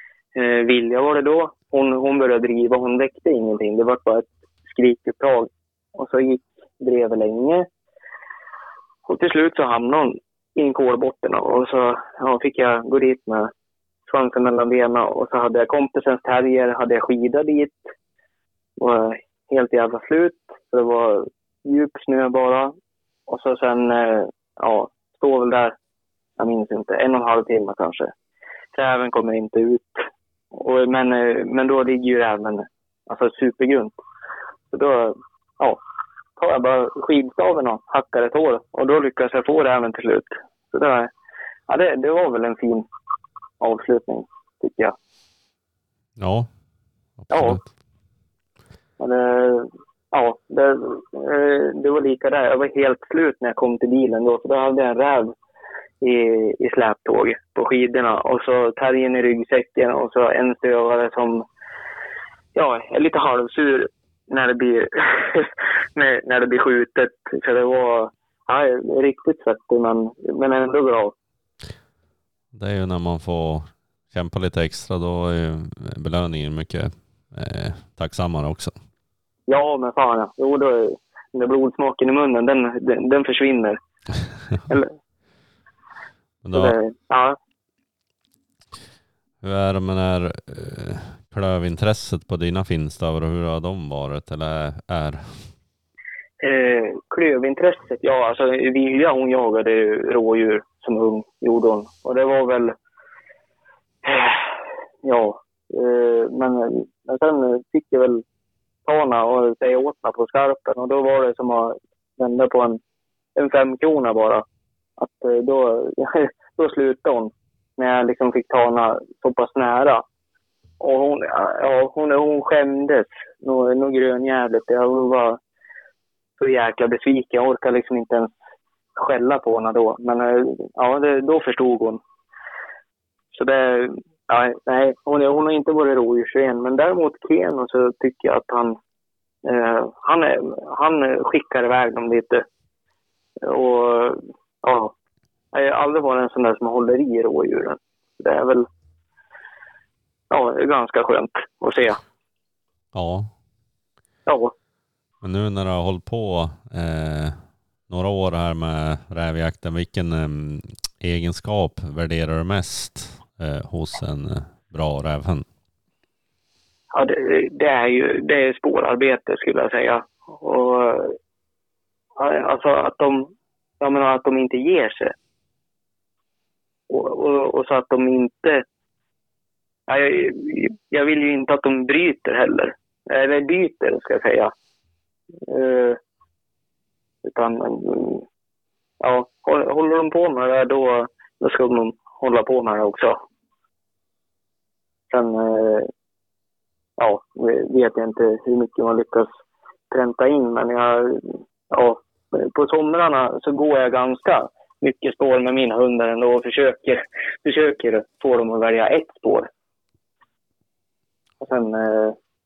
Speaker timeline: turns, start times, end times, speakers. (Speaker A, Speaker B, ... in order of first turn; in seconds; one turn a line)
Speaker A: 0.3-7.7
Speaker A: 9.1-13.5
Speaker A: 14.1-17.9
Speaker A: 18.8-22.7
Speaker A: 23.3-25.7
Speaker A: 26.4-28.1
Speaker A: 28.7-34.0
Speaker A: 34.7-35.8
Speaker A: 36.4-41.1
Speaker A: 41.7-42.8
Speaker A: 43.6-44.9
Speaker B: 46.2-46.5
Speaker B: 47.2-47.7
Speaker A: 47.3-47.6
Speaker A: 49.0-55.3
Speaker A: 56.0-61.4
Speaker A: 62.5-71.1
Speaker B: 72.5-78.8
Speaker A: 79.5-83.8
Speaker A: 84.7-84.9
Speaker B: 86.4-86.8
Speaker A: 86.5-87.4
Speaker B: 89.4-95.5
Speaker A: 96.4-102.7
Speaker A: 104.0-108.2
Speaker A: 108.8-112.8
Speaker A: 113.3-114.4
Speaker A: 115.0-120.0
Speaker A: 120.8-125.4
Speaker A: 126.4-128.3
Speaker A: 128.9-132.0
Speaker A: 133.3-138.8
Speaker A: 139.4-142.4
Speaker A: 143.4-144.9
Speaker A: 145.5-148.7
Speaker A: 150.3-152.0
Speaker B: 152.9-153.3
Speaker A: 154.2-154.5
Speaker B: 155.2-165.5
Speaker A: 166.9-171.2
Speaker A: 172.2-175.1
Speaker A: 176.9-178.6
Speaker A: 179.9-184.5
Speaker A: 185.5-186.0
Speaker A: 187.2-188.2
Speaker A: 189.0-193.2
Speaker A: 195.1-195.9
Speaker A: 197.0-199.4
Speaker A: 199.9-209.5
Speaker A: 211.4-212.2